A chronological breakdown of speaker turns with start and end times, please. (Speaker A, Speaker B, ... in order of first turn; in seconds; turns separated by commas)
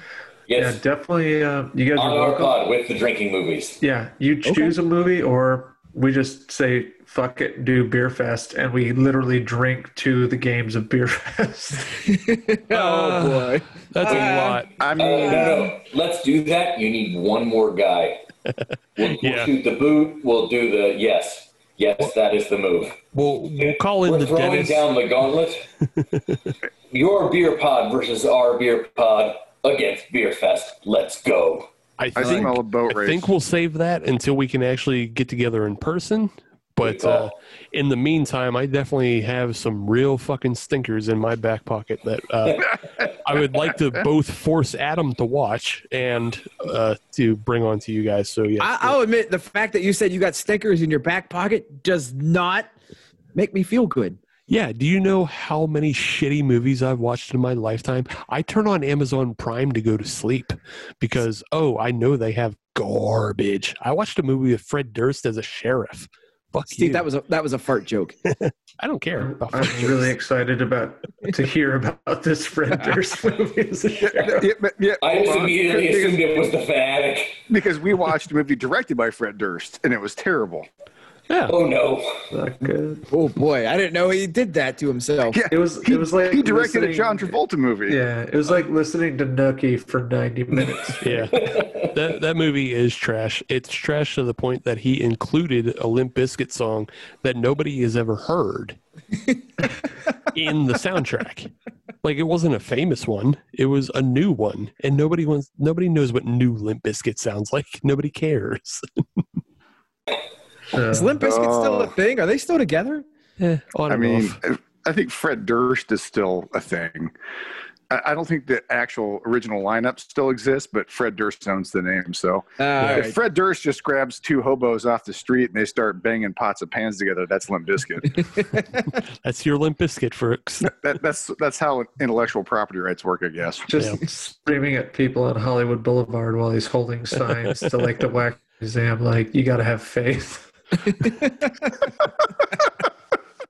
Speaker A: 0.5-0.8, Speaker B: 0.5-2.6, Speaker A: 1.9-3.8, Speaker B: 3.8-12.0, Speaker C: 4.4-4.7, Speaker C: 12.1-14.6, Speaker D: 12.7-14.7, Speaker E: 14.8-15.7, Speaker A: 14.9-18.2, Speaker D: 18.5-19.5, Speaker A: 19.0-23.0, Speaker D: 23.1-24.9, Speaker A: 23.6-25.6, Speaker D: 26.0-26.5, Speaker A: 26.9-31.7, Speaker D: 32.0-49.0, Speaker E: 32.1-33.3, Speaker A: 36.8-37.3, Speaker C: 48.6-52.7, Speaker C: 53.3-54.2, Speaker D: 54.5-67.0, Speaker C: 66.7-68.2, Speaker D: 68.3-70.1, Speaker B: 69.2-74.5, Speaker E: 74.0-76.2, Speaker A: 75.0-77.4, Speaker E: 77.5-80.7, Speaker D: 81.3-81.5, Speaker A: 81.5-82.3, Speaker B: 82.3-83.1, Speaker C: 83.1-85.4, Speaker E: 85.3-88.0, Speaker B: 85.5-91.3, Speaker D: 91.0-98.8, Speaker A: 91.3-91.9, Speaker D: 100.3-109.2, Speaker B: 110.7-111.1, Speaker C: 110.9-113.0, Speaker E: 111.2-111.9, Speaker D: 113.4-114.4, Speaker E: 113.9-117.1, Speaker E: 117.9-128.2, Speaker C: 122.6-123.2, Speaker D: 122.8-123.1, Speaker D: 128.9-130.7, Speaker E: 130.6-133.7, Speaker B: 133.7-141.2